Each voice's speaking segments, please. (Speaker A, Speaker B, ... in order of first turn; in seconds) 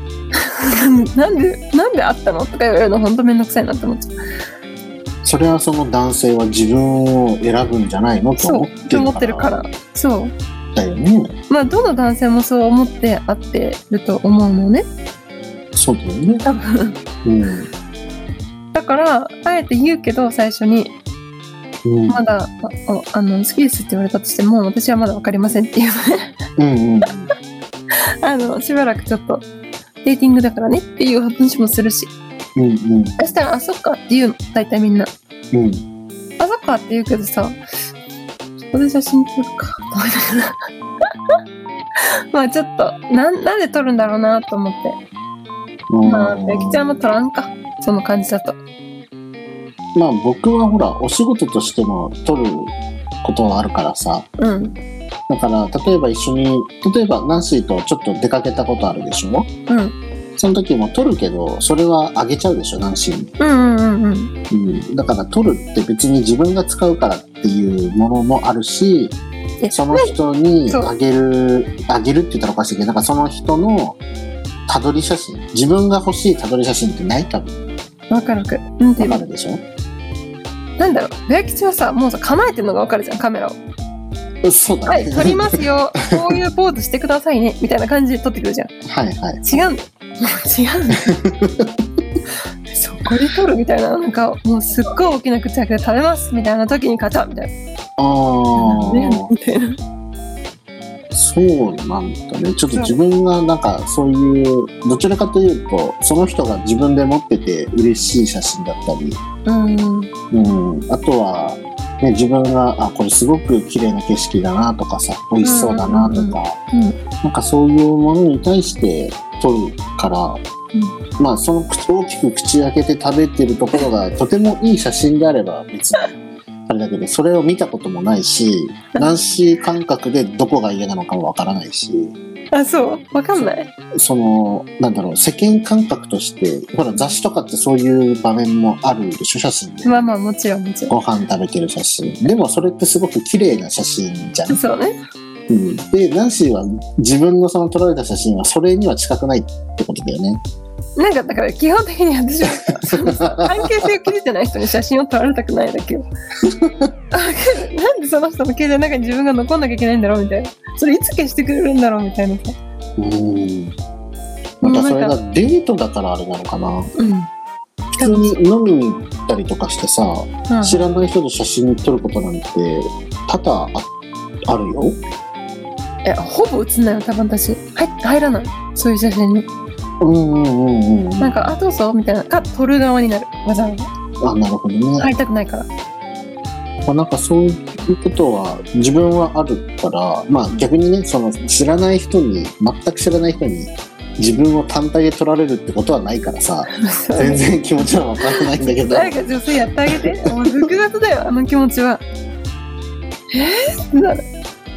Speaker A: 0.4-4.2, 8.4-10.3, 11.5-14.9, 16.4-17.0, 18.7-20.9, 22.1-26.3, 28.2-29.5, 30.0-32.1, 33.2-35.1, 36.4-37.6, 38.6-40.6, 42.3-45.0, 46.0-48.6, 54.4-54.8, 59.7-60.0, 63.4-64.3, 69.6-70.2, 78.1-79.3, 80.8-83.6, 84.9-88.7, 89.4-91.1, 92.7-97.5, 98.5-99.8, 102.7-103.0, 109.5-110.1, 115.4-117.0, 132.5-133.7, 139.8-141.0, 144.5-144.9, 151.0-156.1, 157.1-162.6, 164.6-165.2, 167.0-167.3, 168.0-168.3, 170.5-170.9, 176.1-179.5, 181.2-183.9, 185.0-185.7, 196.8-202.0, 203.3-204.2
Speaker B: 5.2-9.6, 10.8-11.3, 15.8-16.4, 17.2-17.7, 21.9-22.2, 26.6-27.3, 32.6-33.2, 35.5-35.8, 45.9-47.0, 50.0-54.3, 55.3-59.5, 60.4-63.3, 64.5-69.2, 69.7-74.0, 74.7-77.6, 79.0-79.6, 84.4-86.4, 88.8-89.8, 91.3-91.7, 98.0-99.3, 101.1-109.2, 110.3-116.6, 117.2-120.4, 121.2-126.1, 126.7-132.2, 133.3-140.1, 140.9-144.6, 145.5-150.4, 152.9-153.8, 156.5-156.9, 163.0-163.8, 164.6-166.9, 167.9-173.9, 174.5-175.0, 180.0-181.6, 184.2-185.1, 186.8-199.3, 199.9-200.4